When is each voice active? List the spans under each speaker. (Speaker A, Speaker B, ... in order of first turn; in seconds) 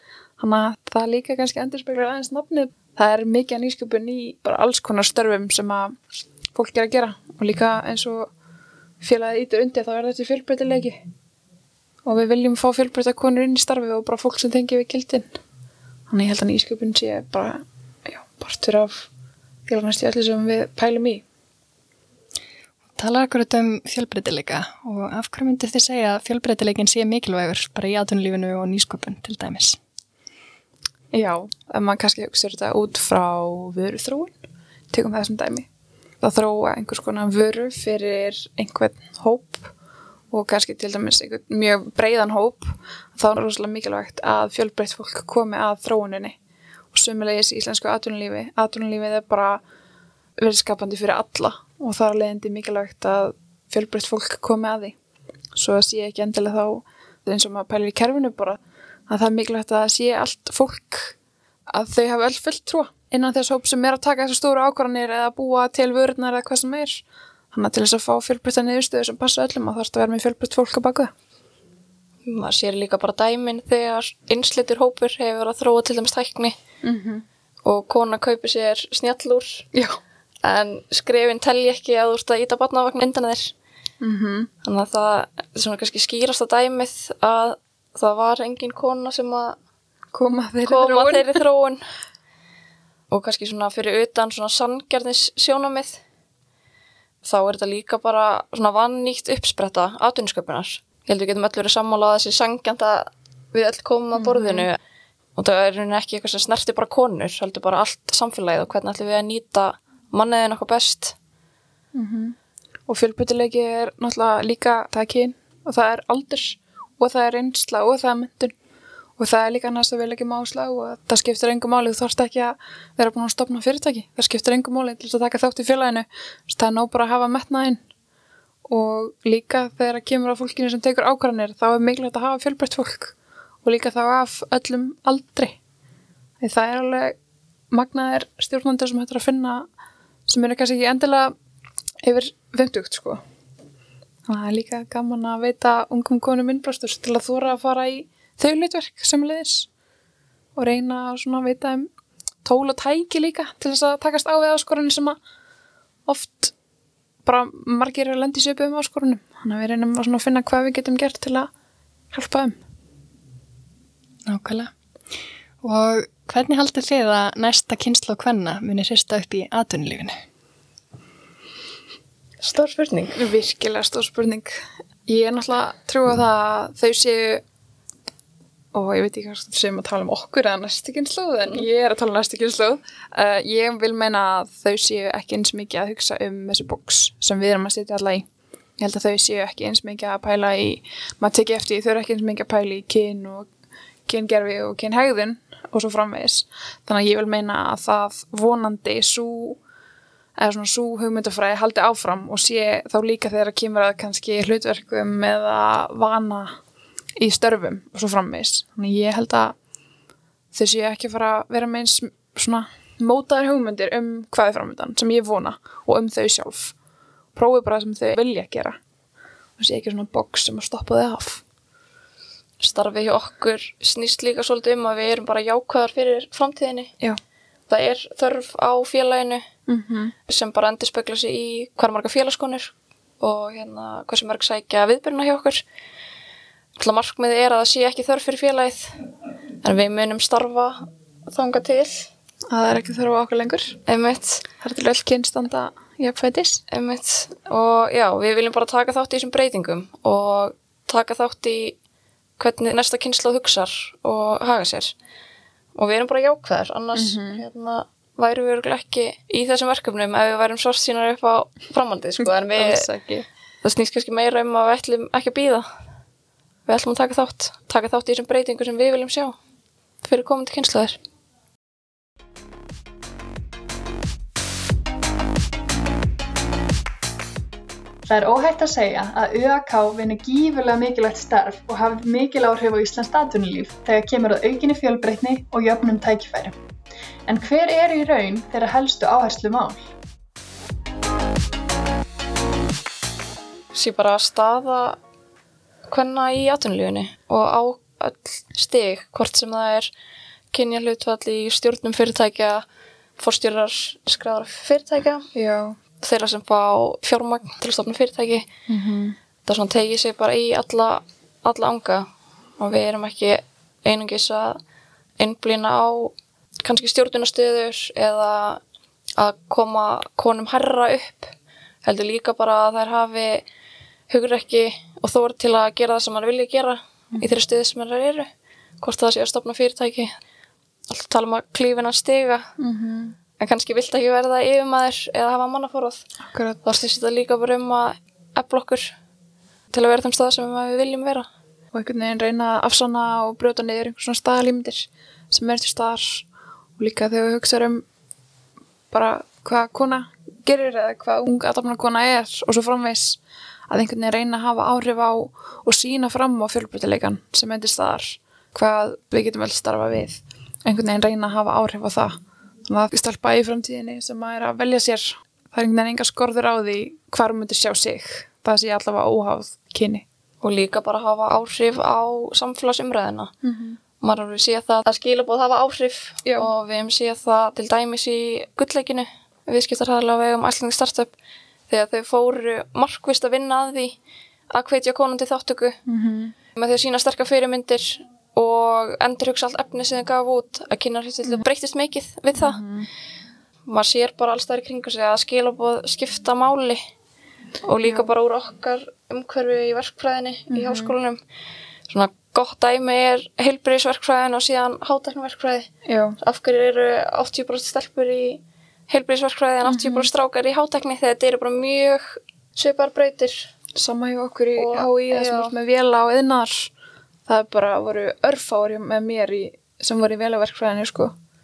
Speaker A: 0.4-6.0, 6.5-8.3, 9.0-11.0, 12.1-15.3, 16.1-19.1, 19.7-21.2, 31.1-34.3, 34.9-35.7, 36.2-39.7, 40.3-46.4, 46.9-49.6, 50.4-55.0, 55.5-61.1, 61.7-71.1, 76.8-77.2, 84.0-84.5, 90.1-91.4, 104.2-104.7, 111.9-118.5, 119.2-127.8, 128.7-135.6, 136.4-137.2, 137.7-139.7, 140.3-141.3, 142.0-143.2, 144.3-149.7, 150.6-151.9, 152.4-155.2, 156.1-156.5, 157.2-161.5, 162.1-162.6, 173.2-177.4, 178.7-188.3, 188.8-193.5, 194.1-199.6, 200.4-206.6, 207.2-209.6, 210.5-216.7, 217.3-218.8, 219.6-221.4, 229.7-230.1, 242.5-243.8, 244.6-246.6, 256.9-257.4, 262.6-263.2, 305.4-305.8, 308.7-309.2, 332.6-333.2, 336.3-336.6, 341.7-346.2, 346.8-347.8, 348.9-370.1, 373.4-373.8, 385.9-386.4, 392.4-392.9, 400.5-400.9, 405.9-406.2, 409.6-410.1, 413.8-416.7, 417.3-421.1
Speaker B: 22.9-29.8, 164.3-164.7, 165.6-170.1
Speaker C: 72.3-76.5, 77.6-79.7, 80.4-83.5, 84.6-89.6, 90.7-91.8, 93.1-96.0, 97.2-104.8, 105.4-111.2, 172.4-173.2, 222.6-226.9, 227.7-229.5, 230.3-235.6, 236.8-239.0, 239.6-242.1, 243.9-244.5, 246.7-251.8, 252.4-254.9, 255.8-262.9, 263.6-265.7, 266.7-269.4, 270.0-271.0, 293.7-295.0, 295.9-299.9, 300.5-302.6, 303.2-305.3, 306.0-308.5, 309.5-314.6, 315.2-318.6, 319.2-321.3, 321.8-323.4, 324.1-328.3, 328.8-330.1, 330.9-332.5, 333.4-336.0, 336.6-338.9, 339.7-341.3, 370.4-373.3, 374.0-381.1, 381.7-384.0, 384.5-385.8, 386.6-392.6, 393.7-396.8, 397.6-401.2, 401.9-405.7, 406.2-413.5, 414.6-415.5
Speaker D: 278.1-286.5, 287.3-289.9